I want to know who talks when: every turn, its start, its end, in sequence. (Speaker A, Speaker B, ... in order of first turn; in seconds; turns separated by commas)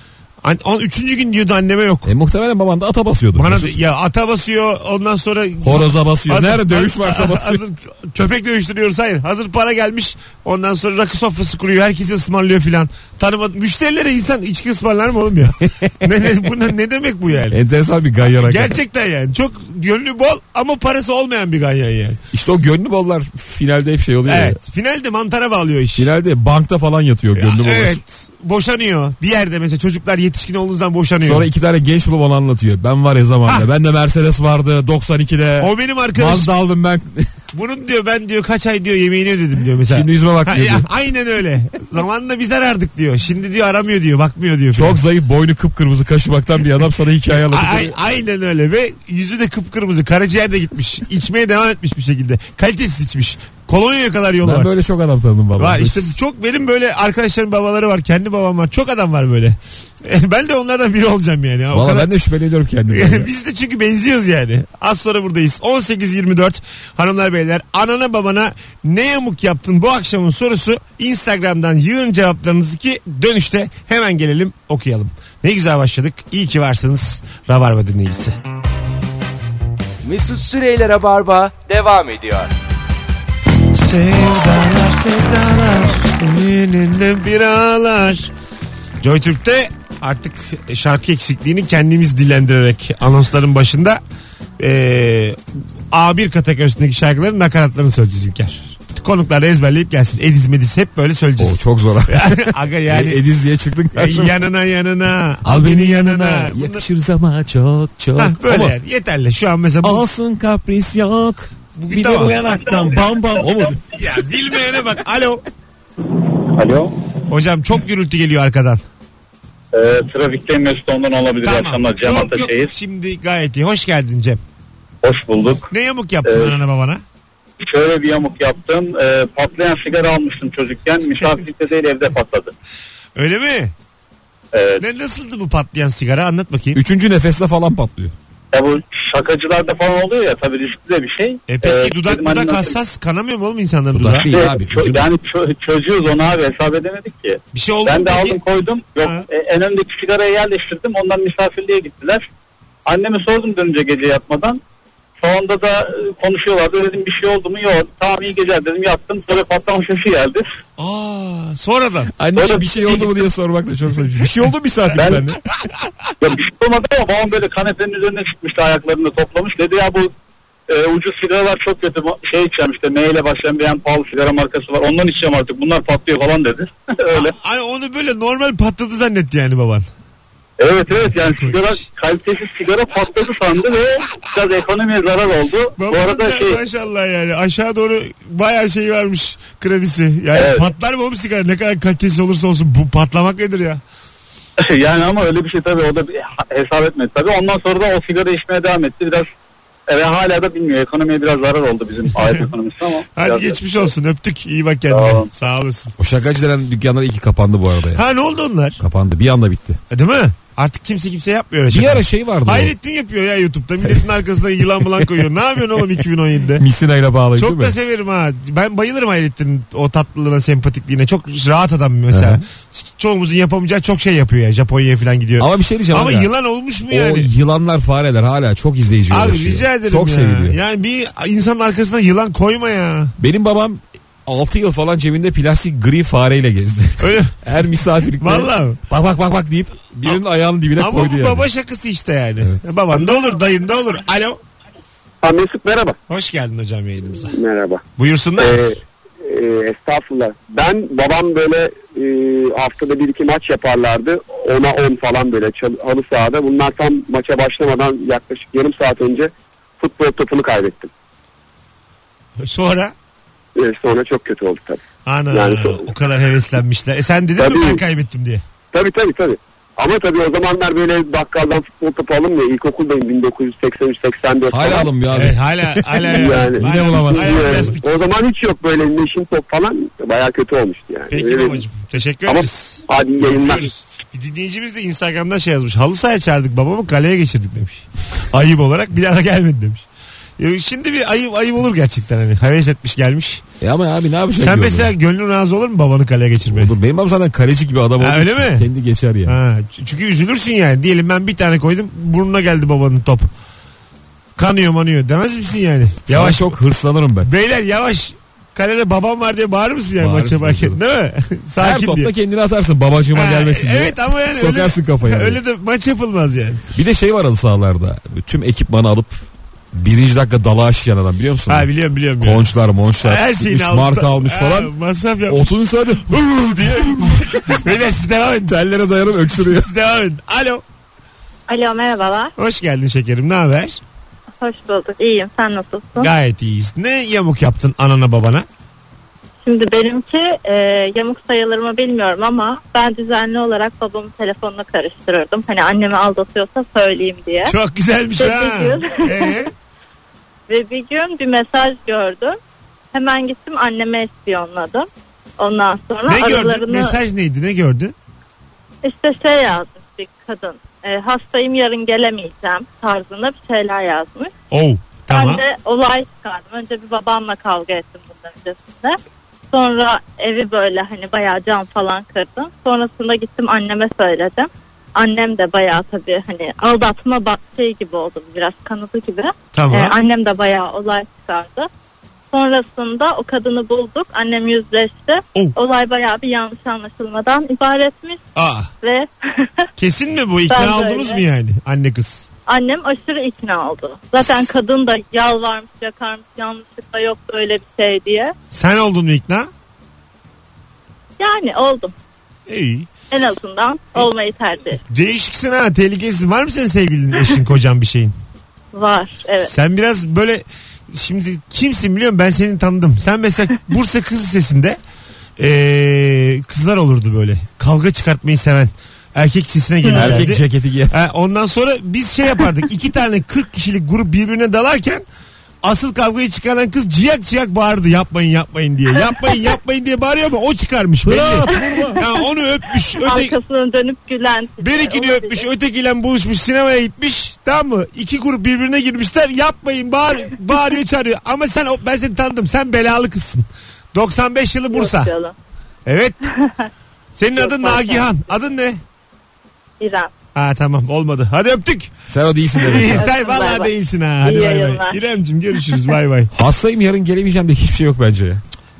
Speaker A: 0.4-2.1, Speaker B: 2.0-3.7, Speaker A: 3.3-17.6, Speaker B: 5.6-7.6, Speaker B: 15.6-15.9, Speaker B: 17.5-18.7, Speaker A: 18.2-22.2, Speaker B: 22.3-24.6, Speaker A: 24.3-26.1, Speaker B: 26.0-28.0, Speaker A: 27.4-31.5, Speaker B: 31.2-37.3, Speaker A: 35.6-36.5, Speaker A: 37.5-45.0, Speaker B: 39.9-40.8, Speaker B: 44.7-47.9, Speaker A: 47.5-54.7, Speaker B: 54.4-56.1, Speaker A: 55.6-62.1, Speaker B: 61.7-63.3, Speaker A: 62.9-78.3, Speaker C: 80.0-82.5, Speaker A: 83.7-88.3, Speaker A: 89.0-94.0, Speaker A: 94.6-103.2, Speaker B: 101.4-104.3, Speaker A: 103.9-106.8, Speaker B: 105.4-108.7, Speaker A: 108.2-110.0, Speaker B: 109.8-113.8, Speaker A: 111.7-112.4, Speaker A: 113.9-115.4, Speaker D: 116.5-116.9, Speaker A: 117.3-118.8, Speaker D: 119.7-122.7, Speaker A: 121.4-124.4, Speaker D: 125.0-125.7, Speaker A: 125.7-127.0, Speaker D: 126.2-126.5, Speaker D: 127.6-132.5, Speaker A: 133.2-133.7, Speaker D: 134.5-134.8, Speaker A: 134.8-136.8, Speaker B: 136.7-138.1, Speaker D: 138.5-142.8, Speaker A: 141.5-144.3, Speaker B: 143.9-145.1, Speaker D: 144.3-152.2, Speaker A: 147.5-148.4, Speaker D: 152.9-154.6, Speaker D: 155.2-160.4, Speaker A: 160.8-162.1, Speaker B: 162.2-165.4, Speaker D: 162.3-163.0, Speaker D: 165.0-165.2, Speaker D: 166.2-170.1, Speaker D: 170.7-177.3, Speaker A: 177.1-179.9, Speaker D: 180.6-186.6, Speaker A: 181.0-181.7, Speaker A: 185.8-193.8, Speaker D: 190.3-190.7, Speaker D: 194.6-199.3, Speaker D: 199.9-203.6, Speaker A: 203.2-205.9, Speaker D: 204.9-205.3, Speaker B: 206.0-208.0, Speaker A: 207.9-208.8, Speaker B: 208.8-209.8, Speaker A: 209.9-216.6, Speaker B: 211.7-212.7, Speaker B: 216.6-217.7, Speaker A: 217.3-227.3, Speaker B: 222.1-222.4, Speaker B: 225.4-226.3, Speaker B: 226.9-230.6, Speaker A: 229.1-233.1, Speaker B: 233.2-241.4, Speaker A: 237.0-237.4, Speaker A: 238.2-238.8, Speaker A: 240.8-244.4, Speaker E: 245.2-246.0, Speaker A: 246.1-247.3, Speaker E: 247.2-247.8, Speaker A: 248.0-248.6, Speaker E: 248.4-260.9, Speaker A: 262.4-262.9, Speaker E: 263.6-264.8, Speaker A: 265.1-268.4, Speaker E: 265.3-265.9, Speaker E: 267.4-267.8, Speaker E: 268.7-274.9, Speaker B: 274.5-277.7, Speaker A: 275.1-277.8, Speaker E: 276.1-281.6, Speaker A: 281.1-289.9, Speaker E: 282.3-283.7, Speaker A: 290.4-293.4, Speaker B: 293.6-294.9, Speaker A: 294.4-296.7, Speaker B: 296.4-299.4, Speaker A: 298.0-298.7, Speaker A: 299.2-303.3, Speaker A: 304.4-306.5, Speaker B: 306.1-307.3, Speaker A: 307.2-312.1, Speaker B: 310.0-310.8, Speaker B: 311.6-315.4, Speaker A: 313.1-316.6, Speaker B: 316.7-319.2, Speaker B: 319.7-321.7, Speaker A: 321.5-322.5, Speaker B: 322.2-324.7, Speaker A: 323.0-325.6, Speaker B: 325.3-327.6, Speaker A: 327.5-328.5, Speaker B: 328.5-329.7, Speaker A: 329.3-330.6, Speaker F: 331.5-332.3, Speaker A: 332.4-333.8, Speaker F: 334.4-336.1, Speaker A: 336.0-338.4, Speaker F: 339.4-347.5, Speaker A: 347.4-349.5, Speaker F: 348.2-349.5, Speaker F: 350.5-352.4, Speaker F: 352.9-354.9, Speaker F: 355.4-356.9, Speaker A: 356.1-357.9, Speaker F: 358.8-364.3, Speaker A: 364.5-365.4, Speaker F: 365.1-369.0, Speaker F: 369.5-381.7, Speaker A: 379.5-380.0, Speaker F: 382.3-388.2, Speaker A: 388.3-388.7, Speaker F: 388.8-389.7, Speaker A: 389.8-392.3, Speaker F: 390.5-391.2, Speaker F: 392.5-398.3, Speaker A: 398.5-399.5, Speaker F: 401.2-401.9, Speaker A: 402.5-402.9, Speaker F: 403.1-404.8, Speaker A: 404.9-408.1, Speaker F: 408.7-409.5, Speaker A: 409.4-414.8, Speaker A: 415.4-425.0, Speaker F: 419.9-420.2, Speaker B: 419.9-420.9, Speaker A: 425.6-433.4, Speaker B: 431.0-432.0, Speaker F: 431.5-432.1, Speaker F: 432.9-435.5, Speaker A: 434.6-445.1, Speaker F: 444.7-445.3, Speaker A: 445.9-446.3, Speaker F: 446.3-446.7, Speaker A: 447.1-448.8, Speaker F: 447.4-448.1, Speaker F: 449.8-450.1, Speaker A: 450.3-451.9, Speaker B: 452.1-453.1, Speaker F: 452.5-453.7, Speaker A: 452.6-456.3, Speaker F: 454.2-454.9, Speaker B: 456.3-458.4